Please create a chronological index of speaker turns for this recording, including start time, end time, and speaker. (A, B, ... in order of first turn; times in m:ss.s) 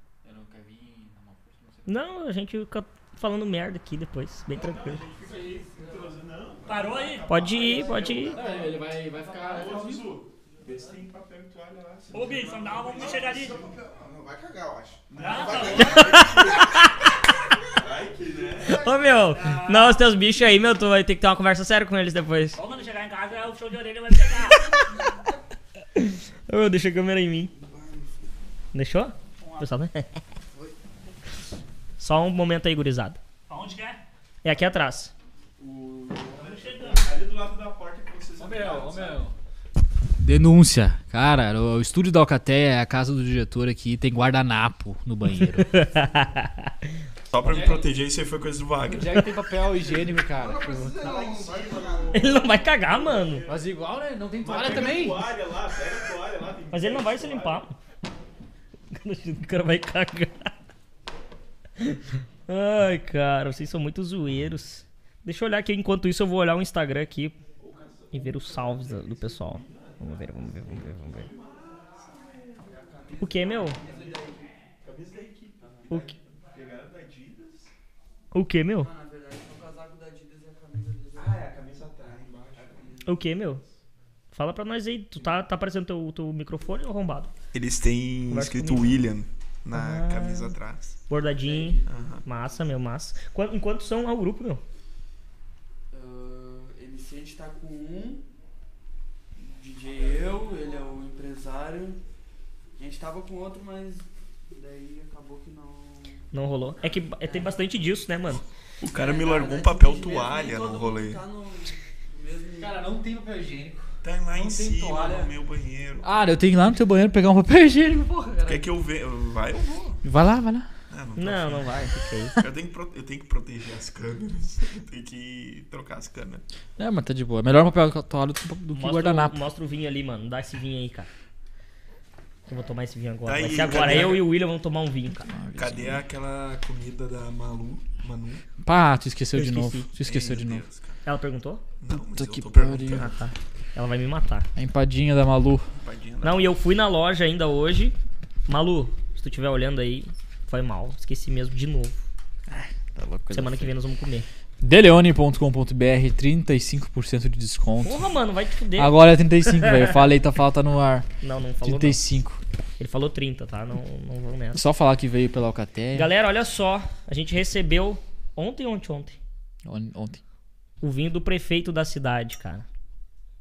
0:00.2-0:02.0 A
0:01.9-0:05.0 B
0:04.5-0:08.6 C
0:05.2-0:06.2 D
0:06.7-0:07.3 E
0:07.3-0:08.4 B
0:07.9-0:08.4 D
0:08.3-0:10.0 A
0:09.2-0:13.7 C
0:10.6-0:11.0 D
0:12.1-0:13.6 E
0:12.7-0:13.4 D
0:13.0-0:16.9 F
0:15.1-0:16.6 C
0:15.2-0:16.0 E
0:15.8-0:16.9 B
0:17.7-0:19.0 C
0:18.6-0:22.6 B
0:18.6-0:19.2 F
0:19.4-0:20.0 E
0:22.6-0:24.7 E
0:26.0-0:27.5 B
0:27.5-0:28.2 F
0:28.7-0:30.1 B
0:29.4-0:29.7 E
0:32.0-0:33.2 B
0:33.5-0:34.0 E
0:34.4-0:35.1 B
0:35.6-0:39.3 C
0:36.4-0:37.0 E
0:38.4-0:39.3 A
0:40.2-0:45.7 A
0:45.6-0:46.7 B
0:47.3-0:49.3 C
0:47.4-0:47.9 A
0:48.8-0:51.0 A
0:50.3-0:52.4 F
0:51.0-0:52.4 D
0:51.0-0:53.6 C
0:52.1-0:53.5 B
0:53.5-0:55.3 A
0:54.4-0:57.6 C
0:56.7-0:57.8 B
0:58.9-1:00.5 B
1:01.8-1:07.4 B
1:07.6-1:12.7 C
1:08.1-1:11.3 B
1:12.6-1:14.5 D
1:13.2-1:13.8 B
1:13.8-1:14.2 C
1:14.8-1:17.7 C
1:15.6-1:15.9 D
1:18.3-1:18.9 B
1:18.8-1:21.5 D
1:21.2-1:23.1 C
1:22.0-1:23.2 D
1:23.0-1:23.6 B
1:24.3-1:27.3 B
1:27.5-1:31.0 C
1:28.3-1:29.0 B
1:29.7-1:30.6 B
1:31.1-1:34.6 B
1:31.3-1:32.6 D
1:31.8-1:32.2 C
1:35.9-1:38.2 D
1:39.4-1:42.0 D
1:42.8-1:46.2 D
1:46.3-1:48.4 B
1:47.2-1:47.6 D
1:48.8-1:51.2 C
1:48.9-1:52.8 D
1:52.6-1:55.3 A
1:54.0-1:56.1 C
1:56.0-1:58.7 A
1:58.4-2:00.0 C
2:00.0-2:00.7 A
2:00.9-2:06.4 C
2:01.2-2:02.4 B
2:06.8-2:09.4 A
2:08.7-2:11.1 B
2:12.5-2:15.3 B
2:13.2-2:14.3 C
2:15.3-2:16.0 A
2:15.6-2:18.4 C
2:18.6-2:20.6 A
2:19.4-2:19.9 B
2:20.0-2:21.0 C
2:21.0-2:21.6 B
2:21.8-2:23.2 C
2:21.9-2:23.2 A
2:23.1-2:24.5 B
2:24.6-2:25.7 A
2:25.8-2:26.5 C
2:26.2-2:28.0 B
2:28.5-2:32.0 B
2:32.5-2:33.7 A
2:33.3-2:34.3 B
2:34.6-2:38.1 A
2:37.8-2:40.0 B
2:38.8-2:41.1 A
2:41.2-2:42.1 B
2:41.6-2:42.4 A
2:42.8-2:44.6 B
2:44.5-2:46.1 A
2:45.9-2:49.2 B
2:49.7-2:50.2 A
2:50.8-2:52.7 B